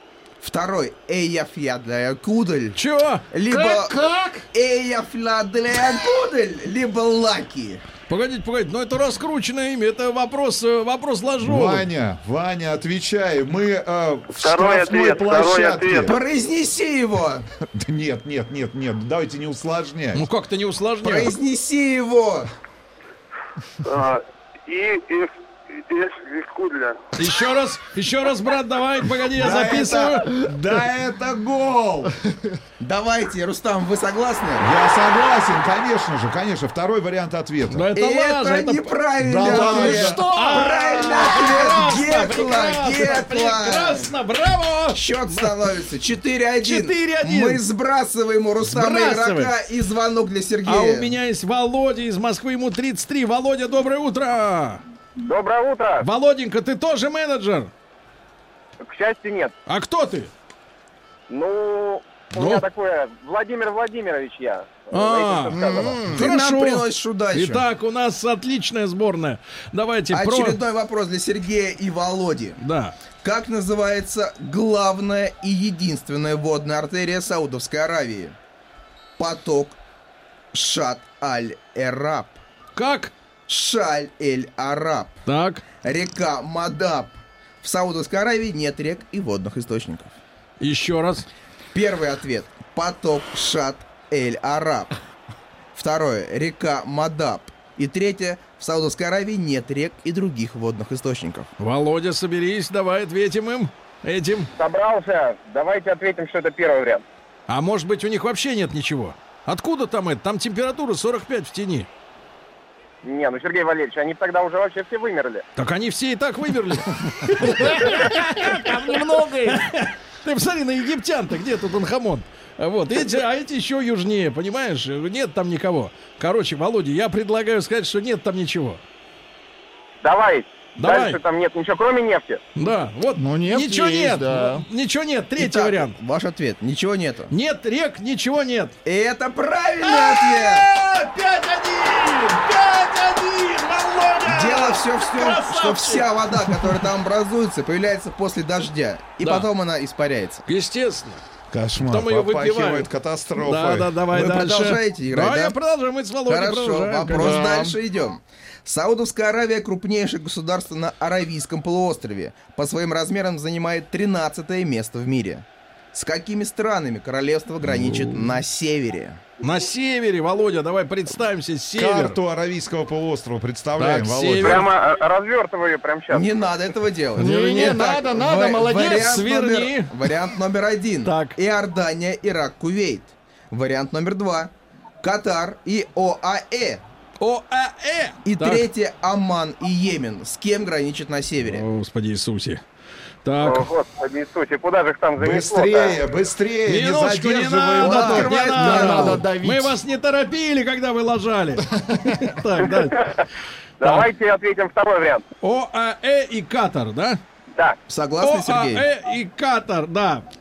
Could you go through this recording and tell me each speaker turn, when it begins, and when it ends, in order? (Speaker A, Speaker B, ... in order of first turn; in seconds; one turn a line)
Speaker A: 0.4-2.8
Speaker B: 2.8-3.3
Speaker A: 3.3-4.0
Speaker C: 3.5-4.5
Speaker A: 4.5-7.8
Speaker B: 8.1-11.9
Speaker D: 11.4-16.2
Speaker E: 14.3-16.1
Speaker A: 16.1-17.4
Speaker D: 17.7-20.3
Speaker B: 20.1-21.3
Speaker A: 21.0-22.5
Speaker E: 23.8-27.1
Speaker B: 27.2-30.2
Speaker D: 29.3-32.1
Speaker A: 32.8-34.7
Speaker D: 34.6-37.9
Speaker B: 37.7-39.0
Speaker A: 37.9-44.1
Speaker D: 39.2-40.2
Speaker C: 39.5-41.4
Speaker B: 39.5-45.5
Speaker A: 44.9-51.1
Speaker B: 46.6-47.6
Speaker B: 48.6-49.5
Speaker B: 50.6-54.8
Speaker F: 55.2-56.1
Speaker B: 56.0-57.7
Speaker F: 58.8-59.5
Speaker B: 59.7-60.3
Speaker F: 61.3-66.1
Speaker B: 62.3-62.7
Speaker B: 64.9-70.6
Speaker C: 65.6-66.1
Speaker A: 66.1-67.7
Speaker A: 70.1-72.6
Speaker B: 72.6-73.0
Speaker A: 73.2-78.4
Speaker A: 79.2-79.8
Speaker A: 80.5-82.4
Speaker B: 82.8-83.1
Speaker A: 83.5-85.2
Speaker B: 85.3-85.6
Speaker A: 85.8-90.2
Speaker B: 90.6-91.2
Speaker A: 91.7-94.9
Speaker A: 95.8-101.5
Speaker B: 101.6-104.5
Speaker F: 104.6-107.0
Speaker B: 107.5-111.9
Speaker F: 113.0-115.4
Speaker B: 115.6-128.8
Speaker C: 117.4-119.7
Speaker F: 130.0-132.4
Speaker B: 130.8-131.2
Speaker B: 132.6-136.0
Speaker C: 133.2-134.7
Speaker A: 135.4-137.3
Speaker B: 137.3-138.8
Speaker A: 138.8-140.7
Speaker B: 139.8-146.1
Speaker A: 144.3-150.5
Speaker B: 149.2-149.5
Speaker B: 150.5-151.2
Speaker D: 151.5-154.0
Speaker B: 151.8-157.5
Speaker A: 154.1-155.6
Speaker A: 156.3-169.2
Speaker C: 157.1-157.8
Speaker B: 169.4-172.2
Speaker D: 171.8-174.7
Speaker B: 173.8-174.7
Speaker F: 174.4-176.3
Speaker A: 176.1-186.8
Speaker B: 177.2-177.8
Speaker C: 177.2-179.4
Speaker B: 178.8-179.9
Speaker B: 181.1-181.4
Speaker B: 187.2-188.7
Speaker A: 188.2-191.7
Speaker B: 191.4-192.6
Speaker B: 193.2-193.7
Speaker F: 193.4-196.0
Speaker D: 195.2-198.3
Speaker B: 196.7-203.1
Speaker A: 197.8-199.2
Speaker C: 198.4-199.8
Speaker C: 201.9-202.2
Speaker F: 202.7-203.0
Speaker F: 203.8-205.2
Speaker B: 203.8-204.1
Speaker B: 205.4-207.2
Speaker A: 207.9-208.9
Speaker B: 208.2-210.3